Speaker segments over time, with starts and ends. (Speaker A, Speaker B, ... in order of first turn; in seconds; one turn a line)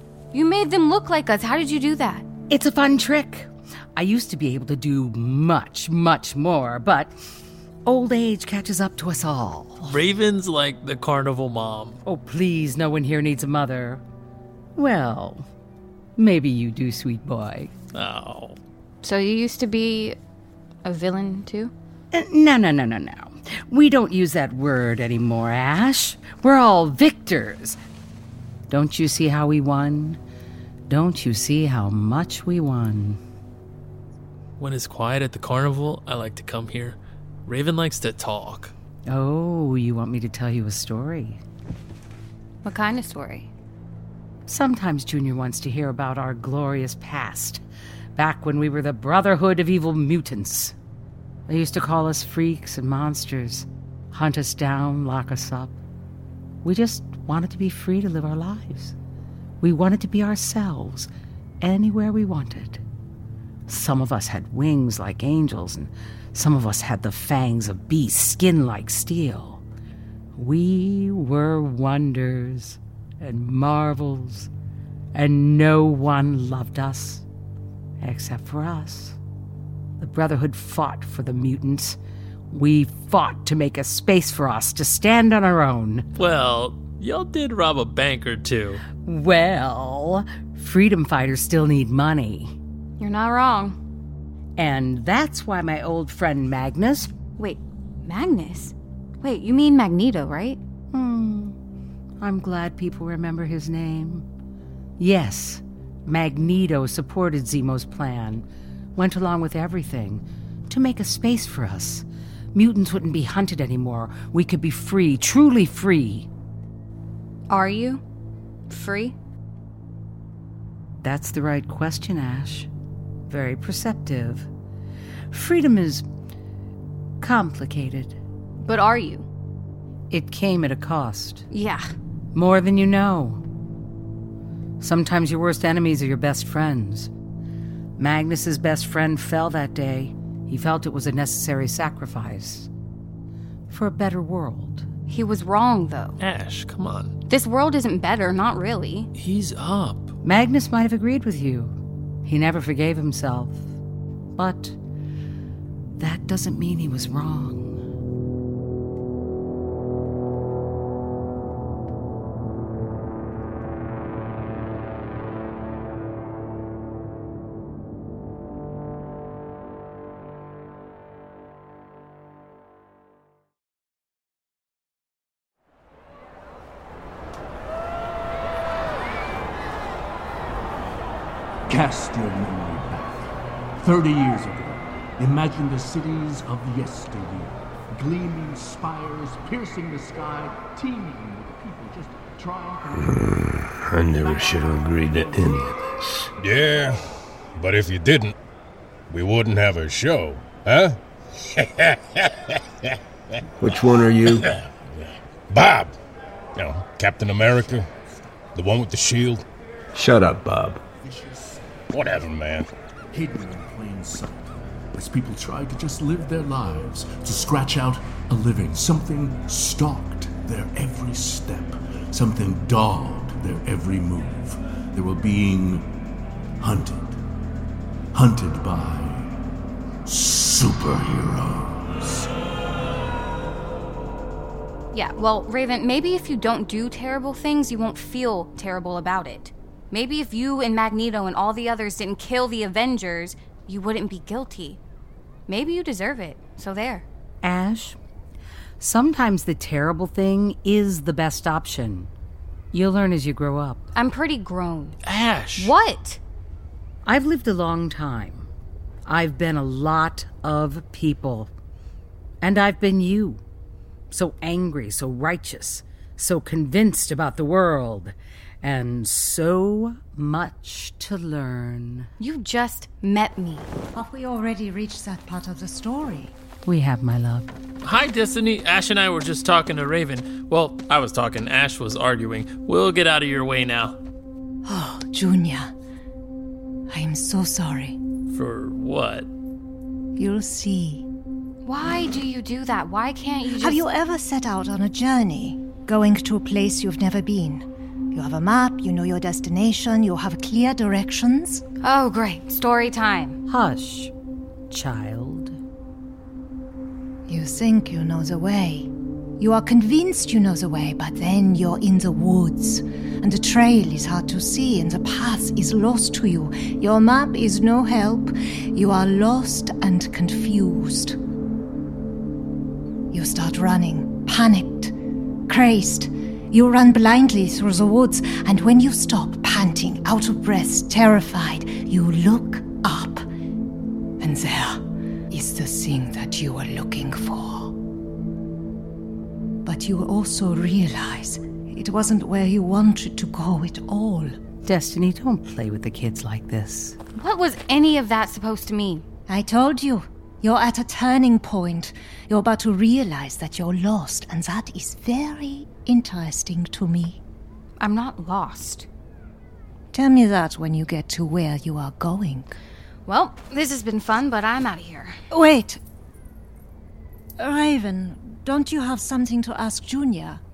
Speaker A: 0.3-2.2
Speaker B: 2.5-7.1
Speaker B: 7.8-10.0
Speaker C: 9.8-12.0
Speaker B: 12.0-14.0
Speaker B: 14.8-15.4
Speaker B: 16.2-17.7
Speaker C: 17.9-18.6
Speaker A: 19.0-20.2
Speaker A: 20.8-21.7
Speaker B: 22.1-27.8
Speaker B: 28.7-30.2
Speaker B: 30.9-33.2
Speaker C: 34.6-38.7
Speaker B: 39.1-41.4
Speaker A: 42.6-43.5
Speaker B: 44.5-47.6
Speaker B: 48.1-50.7
Speaker B: 51.5-55.7
Speaker B: 56.6-58.9
Speaker B: 59.6-61.1
Speaker B: 61.6-62.8
Speaker B: 63.7-69.6
Speaker B: 70.3-74.5
Speaker B: 75.1-77.2
Speaker B: 78.0-79.2
Speaker B: 80.0-82.0
Speaker B: 82.5-86.0
Speaker C: 86.2-88.8
Speaker B: 89.0-92.5
Speaker A: 93.0-93.8
Speaker B: 94.6-97.1
Speaker A: 97.4-100.6
Speaker B: 100.9-101.5
Speaker B: 102.2-104.2
Speaker B: 105.0-108.4
Speaker B: 109.0-116.3
Speaker A: 117.5-118.0
Speaker A: 118.7-119.1
Speaker B: 121.0-122.7
Speaker B: 123.3-124.5
Speaker B: 125.3-126.0
Speaker B: 127.2-128.2
Speaker A: 128.6-129.2
Speaker B: 130.1-131.4
Speaker A: 131.5-131.8
Speaker B: 132.3-133.4
Speaker B: 134.8-137.1
Speaker B: 138.0-142.7
Speaker B: 143.7-144.9
Speaker A: 145.1-146.2
Speaker C: 146.2-147.1
Speaker A: 147.3-149.1
Speaker C: 149.1-150.1
Speaker B: 150.2-153.7
Speaker B: 154.3-154.8
Speaker B: 156.0-157.8
Speaker D: 181.7-183.3
Speaker D: 183.8-193.2
Speaker E: 192.9-196.3
Speaker D: 195.1-195.4
Speaker F: 196.6-196.8
Speaker F: 197.6-198.3
Speaker F: 199.2-200.5
Speaker E: 203.6-204.5
Speaker F: 205.6-205.9
Speaker F: 206.6-207.8
Speaker F: 208.6-209.4
Speaker E: 209.9-210.8
Speaker D: 211.0-211.7
Speaker F: 212.0-212.6
Speaker D: 213.1-225.9
Speaker D: 226.6-227.2
Speaker D: 228.1-229.3
Speaker D: 230.0-232.3
Speaker A: 234.9-244.8
Speaker A: 245.5-247.0
Speaker B: 247.4-248.0
Speaker B: 248.8-252.1
Speaker B: 252.7-253.8
Speaker A: 253.9-255.0
Speaker C: 255.0-255.7
Speaker A: 255.6-256.2
Speaker B: 257.0-258.5
Speaker B: 259.1-261.5
Speaker B: 262.4-263.4
Speaker B: 264.1-272.1
Speaker A: 272.2-273.7
Speaker G: 273.9-276.3
Speaker B: 276.6-277.5
Speaker C: 277.8-283.9
Speaker G: 284.6-285.7
Speaker G: 286.9-288.0
Speaker C: 288.3-289.3
Speaker G: 290.1-291.1
Speaker A: 291.6-293.8
Speaker G: 293.6-301.6
Speaker A: 301.8-303.4
Speaker B: 303.5-304.1
Speaker B: 304.7-305.6
Speaker G: 307.3-321.2
Speaker G: 323.1-324.9
Speaker G: 325.5-333.2
Speaker G: 334.2-337.7
Speaker G: 339.6-344.4
Speaker B: 344.6-347.0
Speaker A: 347.2-349.0
Speaker G: 349.3-357.2
Speaker A: 357.8-358.9
Speaker G: 359.9-362.5
Speaker A: 363.1-365.2
Speaker G: 365.3-365.8
Speaker G: 367.4-370.4